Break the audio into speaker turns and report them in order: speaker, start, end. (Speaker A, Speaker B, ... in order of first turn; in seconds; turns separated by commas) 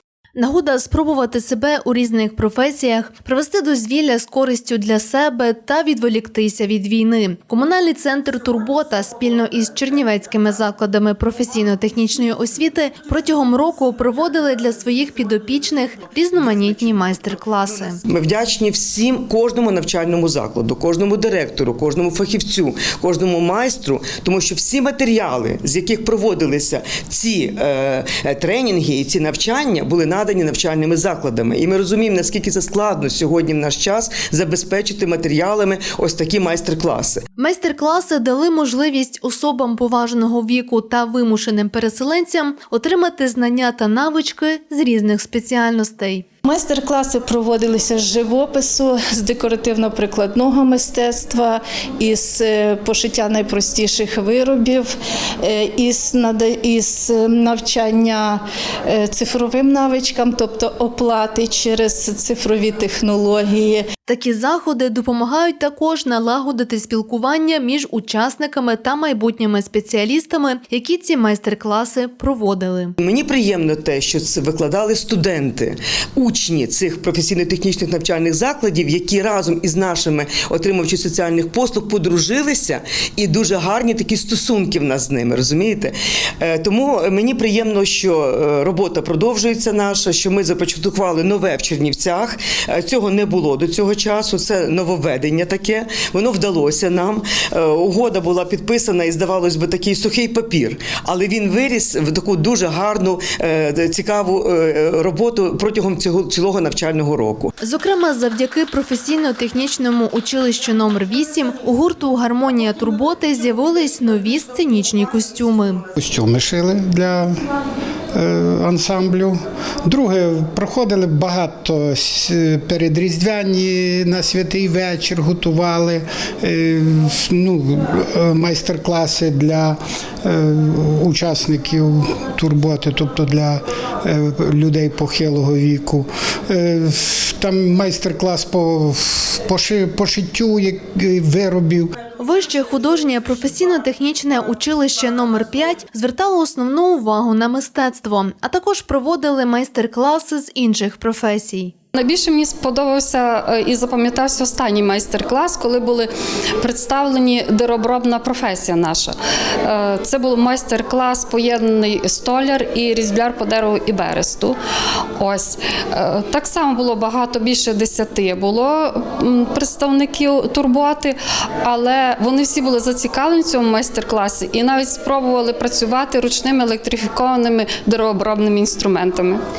Speaker A: 0.3-18.0, Speaker B: 18.0-37.2, Speaker A: 37.4-46.2, Speaker C: 46.4-63.9, Speaker A: 64.0-73.0, Speaker B: 73.0-107.5, Speaker A: 107.6-115.9, Speaker D: 116.0-117.3, Speaker D: 118.1-141.9, Speaker A: 142.2-151.7, Speaker E: 151.9-164.6, Speaker E: 165.2-179.4